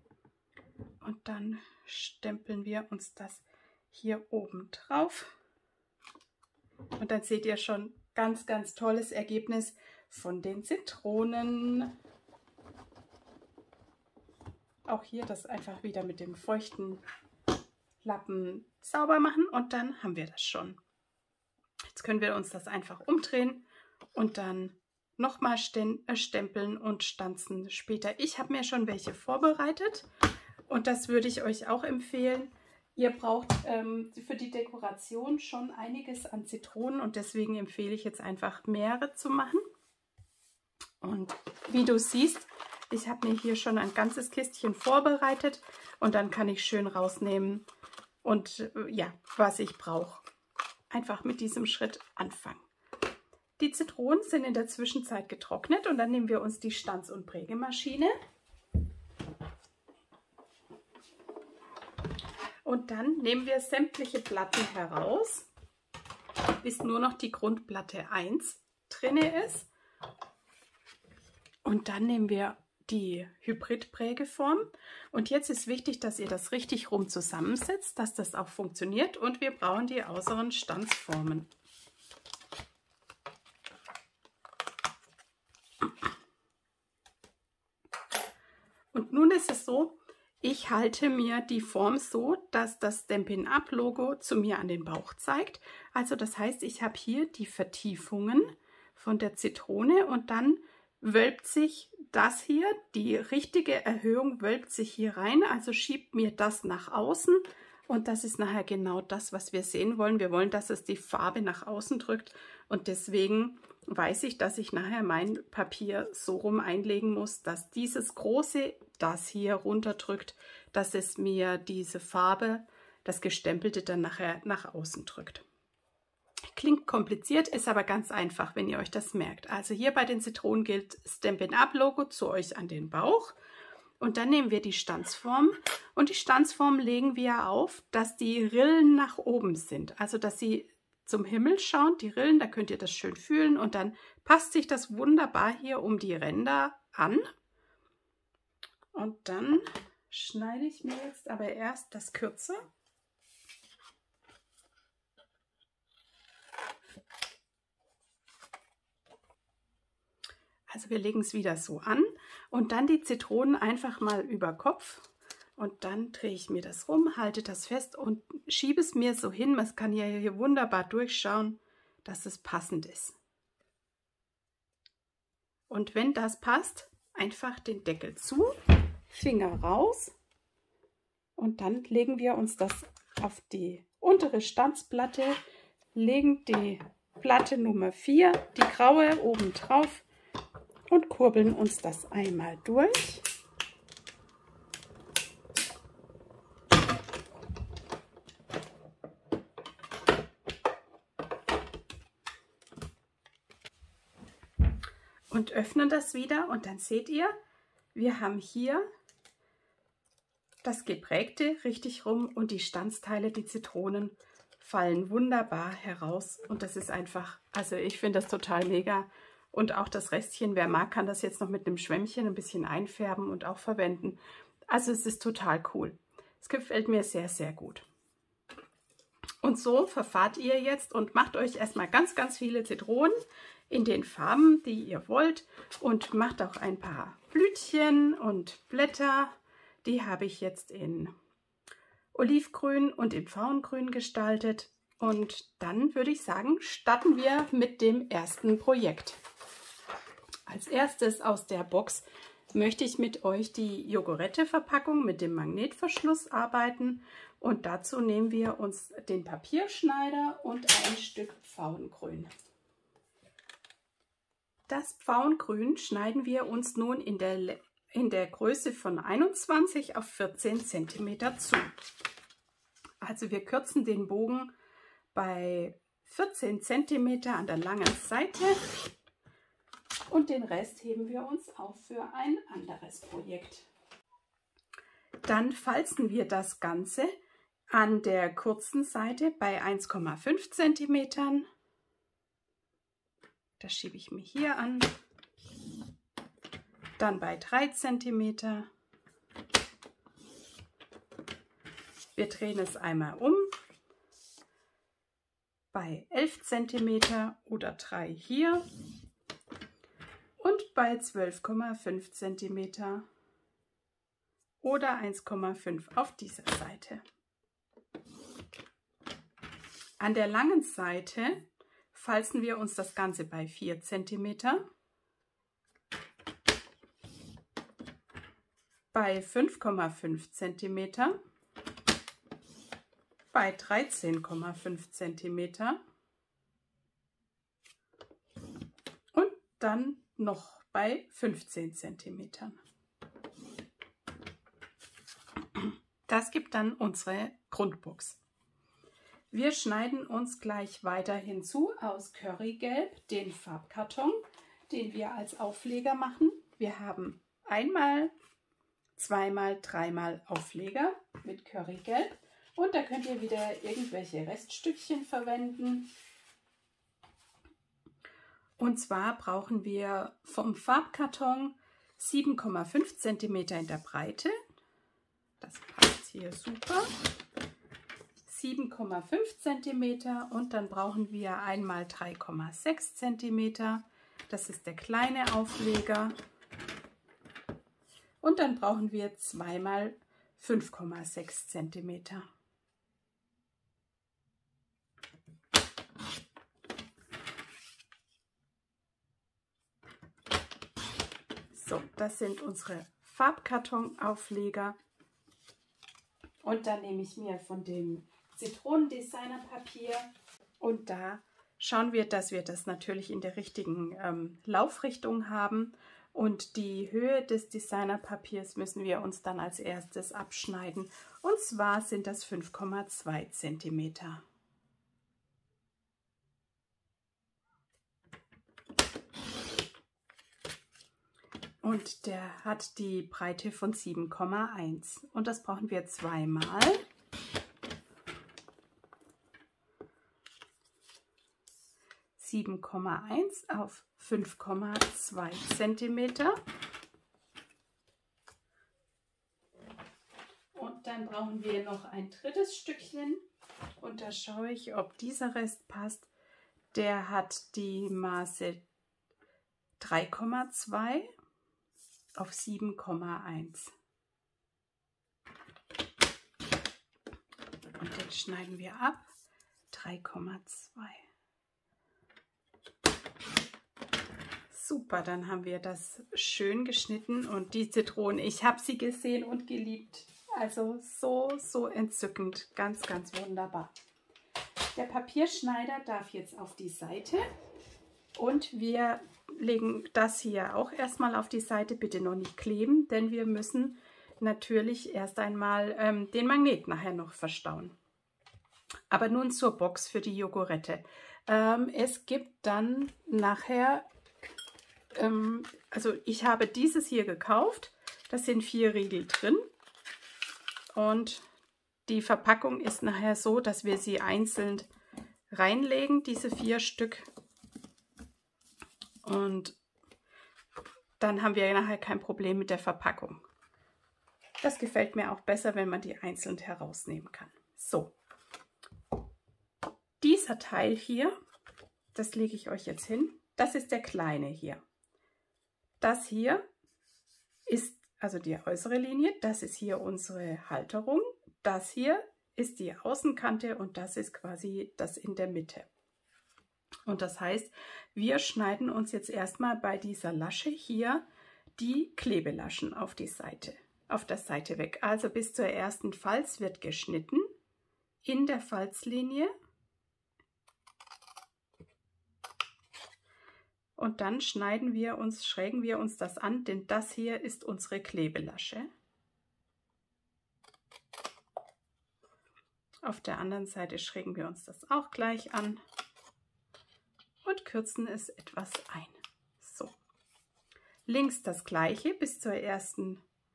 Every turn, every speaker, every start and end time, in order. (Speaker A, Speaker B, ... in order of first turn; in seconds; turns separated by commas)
Speaker A: 1.0-5.3, Speaker A: 7.0-11.9, Speaker A: 14.9-17.0, Speaker A: 18.0-20.8, Speaker A: 21.9-30.1, Speaker A: 30.7-39.6, Speaker A: 41.0-47.7, Speaker A: 48.2-50.2, Speaker A: 50.9-52.7, Speaker A: 53.6-58.1, Speaker A: 62.6-65.5, Speaker A: 66.6-69.7, Speaker A: 71.7-81.5, Speaker A: 88.9-125.4, Speaker A: 126.5-133.3, Speaker A: 134.0-147.3, Speaker A: 148.9-152.7, Speaker A: 160.7-173.2, Speaker A: 175.7-178.6, Speaker A: 179.1-180.2, Speaker A: 181.4-185.4, Speaker A: 185.9-190.1, Speaker A: 190.9-193.2, Speaker A: 205.3-207.3, Speaker A: 207.9-208.8, Speaker A: 210.6-227.9, Speaker A: 229.4-233.2, Speaker A: 233.7-241.1, Speaker A: 242.1-249.2, Speaker A: 250.5-262.3, Speaker A: 264.7-271.7, Speaker A: 273.0-274.5, Speaker A: 275.1-278.7, Speaker A: 280.1-283.7, Speaker A: 285.2-287.1, Speaker A: 287.7-291.5, Speaker A: 293.6-294.9, Speaker A: 297.0-298.7, Speaker A: 302.2-303.5, Speaker A: 305.7-308.6, Speaker A: 310.4-313.1, Speaker A: 314.6-317.0, Speaker A: 320.0-324.6, Speaker A: 328.9-331.2, Speaker A: 333.3-335.8, Speaker A: 339.1-342.6, Speaker A: 345.6-348.2, Speaker A: 349.3-358.1, Speaker A: 359.0-365.9, Speaker A: 368.6-374.3, Speaker A: 375.4-376.9, Speaker A: 378.3-386.1, Speaker A: 388.2-392.3, Speaker A: 401.5-404.8, Speaker A: 406.4-424.2, Speaker A: 431.6-436.8, Speaker A: 442.2-446.4, Speaker A: 450.6-453.2, Speaker A: 453.8-456.1, Speaker A: 456.7-458.6, Speaker A: 459.8-461.1, Speaker A: 462.2-463.7, Speaker A: 467.8-469.1, Speaker A: 469.7-471.0, Speaker A: 474.5-483.7, Speaker A: 484.8-487.2, Speaker A: 488.2-497.8, Speaker A: 498.9-503.9, Speaker A: 504.9-509.4, Speaker A: 510.7-511.2, Speaker A: 511.9-514.7, Speaker A: 515.3-517.1, Speaker A: 519.0-519.6, Speaker A: 521.0-523.2, Speaker A: 524.4-527.9, Speaker A: 530.0-531.1, Speaker A: 531.9-534.6, Speaker A: 535.8-536.4, Speaker A: 537.5-545.7, Speaker A: 546.9-551.0, Speaker A: 551.6-557.2, Speaker A: 558.0-559.3, Speaker A: 563.8-568.7, Speaker A: 572.8-575.6, Speaker A: 577.2-579.8, Speaker A: 580.9-583.0